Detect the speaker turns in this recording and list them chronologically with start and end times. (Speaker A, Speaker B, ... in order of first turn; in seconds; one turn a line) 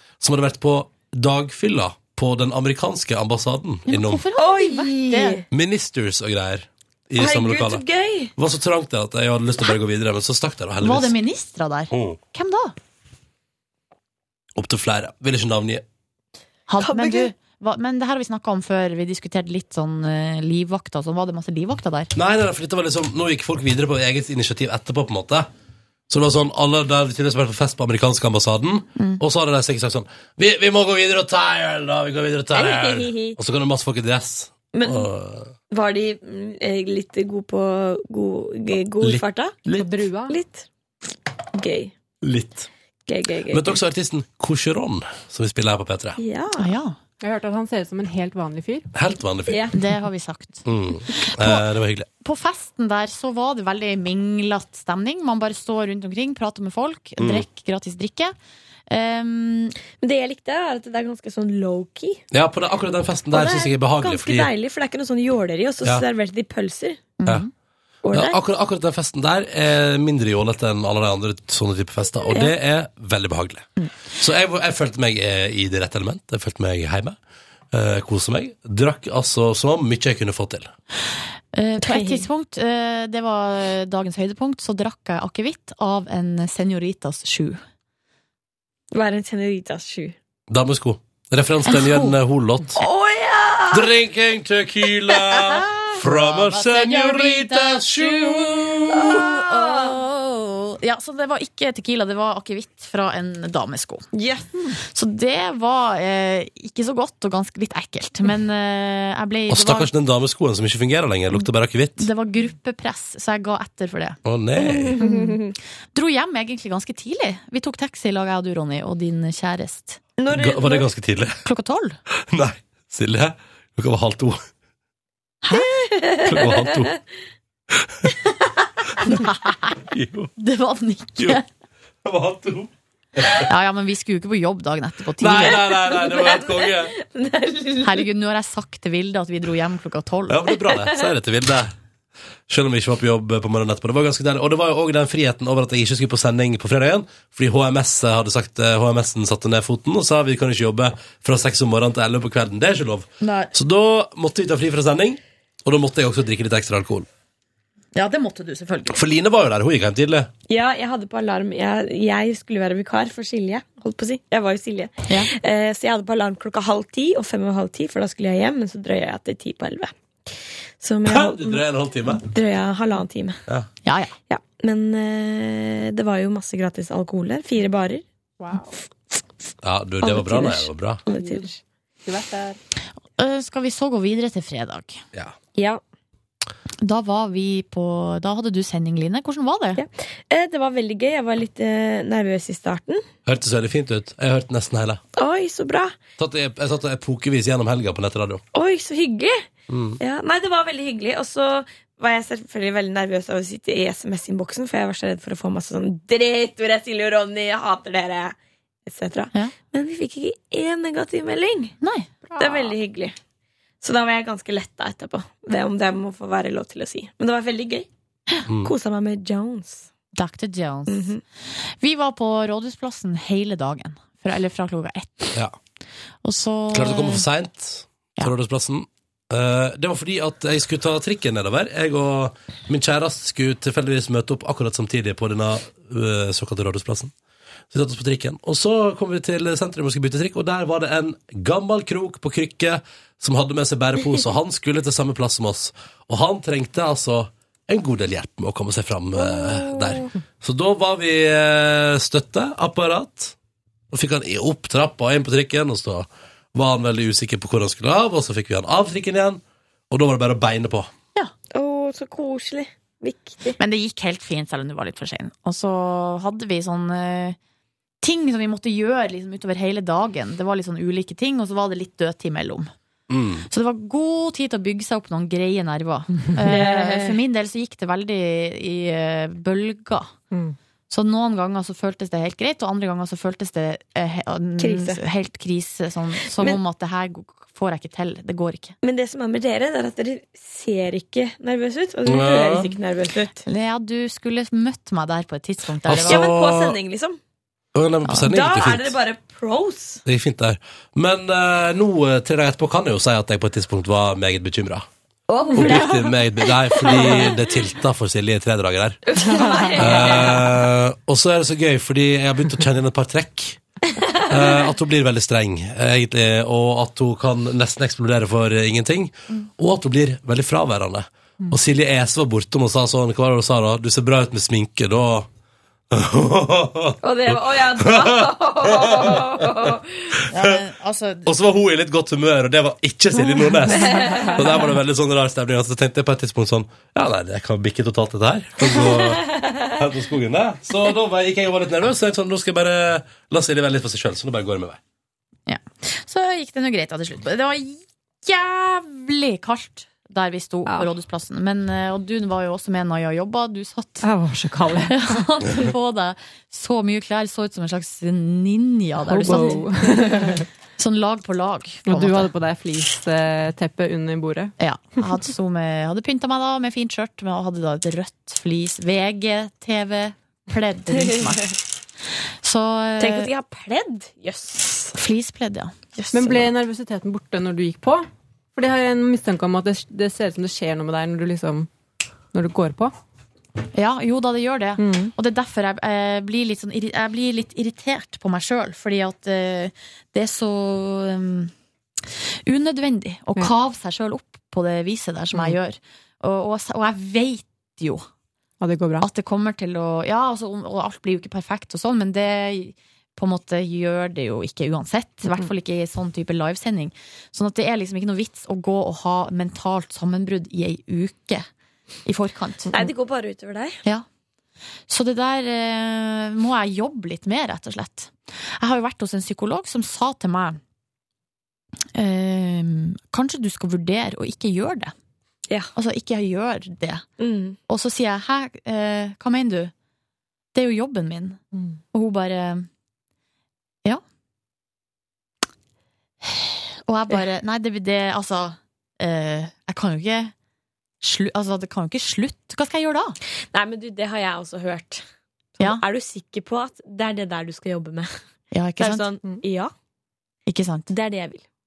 Speaker A: 0.2-4.2
Speaker B: 3.9-5.4
Speaker C: 4.3-5.4
Speaker A: 5.5-7.8
Speaker C: 7.2-8.3
Speaker A: 8.3-11.1
Speaker B: 10.8-12.7
Speaker A: 11.9-12.2
Speaker A: 14.6-15.8
Speaker B: 16.7-22.1
Speaker C: 16.8-17.3
Speaker A: 22.1-25.5
Speaker A: 26.1-35.5
Speaker B: 28.9-29.2
Speaker C: 32.5-33.4
Speaker C: 34.7-35.1
Speaker C: 35.7-39.6
Speaker A: 39.0-39.9
Speaker D: 39.8-40.4
Speaker C: 40.3-40.6
Speaker C: 41.5-41.9
Speaker A: 42.2-42.7
Speaker C: 43.1-43.7
Speaker A: 43.5-46.2
Speaker C: 46.2-46.7
Speaker B: 46.6-46.9
Speaker D: 47.2-48.9
Speaker A: 48.9-49.7
Speaker C: 49.5-49.7
Speaker B: 49.7-51.6
Speaker A: 50.6-52.1
Speaker B: 52.2-58.3
Speaker A: 57.2-57.5
Speaker B: 58.9-59.7
Speaker C: 60.0-62.2
Speaker A: 62.3-64.5
Speaker C: 63.3-67.1
Speaker B: 67.2-67.5
Speaker C: 68.0-68.4
Speaker A: 68.1-77.2
Speaker A: 77.7-80.7
Speaker B: 81.5-87.6
Speaker C: 81.8-82.2
Speaker C: 88.9-90.1
Speaker A: 90.5-92.8
Speaker B: 91.7-92.1
Speaker C: 92.7-93.9
Speaker A: 93.7-99.3
Speaker C: 95.1-95.6
Speaker B: 96.0-104.1
Speaker C: 98.9-100.0
Speaker C: 104.1-104.5
Speaker B: 104.8-109.9
Speaker A: 109.5-112.1
Speaker B: 112.0-114.2
Speaker A: 114.2-115.0
Speaker C: 114.6-115.5
Speaker B: 115.0-115.4
Speaker B: 115.9-120.0
Speaker C: 120.2-120.9
Speaker A: 120.3-121.4
Speaker B: 121.4-122.0
Speaker A: 122.3-124.4
Speaker C: 125.6-126.8
Speaker A: 126.2-126.9
Speaker A: 127.7-128.1
Speaker B: 129.0-129.5
Speaker A: 129.9-130.3
Speaker B: 130.4-131.4
Speaker A: 132.0-133.5
Speaker B: 133.4-135.7
Speaker A: 135.2-136.9
Speaker C: 135.9-138.0
Speaker B: 137.8-140.5
Speaker A: 140.3-141.7
Speaker A: 142.5-157.1
Speaker B: 153.2-153.5
Speaker B: 157.9-159.0
Speaker A: 158.9-160.3
Speaker C: 160.5-171.6
Speaker B: 165.1-165.3
Speaker A: 171.1-172.2
Speaker C: 172.1-173.4
Speaker B: 173.8-174.1
Speaker C: 174.3-178.0
Speaker D: 178.4-178.7
Speaker A: 179.6-181.0
Speaker C: 180.0-181.5
Speaker D: 181.1-182.6
Speaker B: 183.2-185.0
Speaker C: 185.6-185.8
Speaker B: 186.8-189.8
Speaker C: 189.7-193.0
Speaker A: 193.2-195.0
Speaker C: 195.2-195.9
Speaker A: 196.2-198.4
Speaker C: 198.5-199.4
Speaker A: 199.7-200.0
Speaker C: 200.0-211.7
Speaker B: 211.8-212.1
Speaker D: 212.3-212.7
Speaker C: 212.4-213.1
Speaker C: 213.8-217.9
Speaker A: 218.5-218.7
Speaker C: 218.6-219.9
Speaker B: 220.1-221.1
Speaker C: 220.9-221.2
Speaker B: 221.8-225.4
Speaker B: 226.2-227.2
Speaker A: 226.7-237.1
Speaker A: 237.7-253.3
Speaker C: 249.4-250.1
Speaker A: 253.9-260.9
Speaker C: 261.5-263.6
Speaker B: 263.6-267.4
Speaker B: 268.0-272.7
Speaker A: 273.1-273.4
Speaker B: 273.5-280.1
Speaker C: 276.4-277.2
Speaker D: 280.3-280.6
Speaker B: 280.9-288.7
Speaker C: 284.6-285.0
Speaker C: 288.8-293.4
Speaker A: 292.0-292.7
Speaker B: 293.4-296.3
Speaker A: 295.9-296.8
Speaker C: 295.9-297.2
Speaker A: 297.7-298.9
Speaker C: 298.2-300.0
Speaker A: 300.0-304.9
Speaker C: 305.3-307.4
Speaker D: 305.5-305.9
Speaker A: 305.5-309.0
Speaker C: 309.1-310.4
Speaker D: 309.3-310.0
Speaker A: 309.8-313.6
Speaker A: 314.3-325.3
Speaker A: 325.9-329.7
Speaker C: 327.0-330.1
Speaker B: 330.3-331.3
Speaker A: 330.4-330.6
Speaker A: 331.2-344.8
Speaker C: 333.8-334.4
Speaker B: 345.5-354.1
Speaker D: 354.0-355.2
Speaker B: 354.9-362.3
Speaker D: 359.0-360.4
Speaker D: 361.9-364.5
Speaker B: 364.6-371.5
Speaker C: 371.2-371.5
Speaker B: 372.4-373.3
Speaker C: 373.0-374.9
Speaker B: 374.9-376.4
Speaker D: 376.1-381.7
Speaker D: 382.3-382.9
Speaker B: 383.7-391.5
Speaker D: 384.8-385.1
Speaker B: 392.4-398.1
Speaker D: 395.3-395.6
Speaker D: 398.6-399.1
Speaker B: 399.0-411.5
Speaker B: 412.0-412.8
Speaker C: 412.7-413.8
Speaker B: 414.9-420.6
Speaker B: 421.9-424.9
Speaker B: 425.7-427.0
Speaker C: 427.2-427.6
Speaker B: 427.7-429.7
Speaker B: 430.5-431.4
Speaker B: 431.9-432.7
Speaker B: 436.2-440.3
Speaker B: 441.0-443.2
Speaker C: 443.5-445.0
Speaker C: 445.6-448.1
Speaker B: 448.5-449.1
Speaker C: 448.8-449.7
Speaker B: 450.5-450.9
Speaker C: 450.9-451.4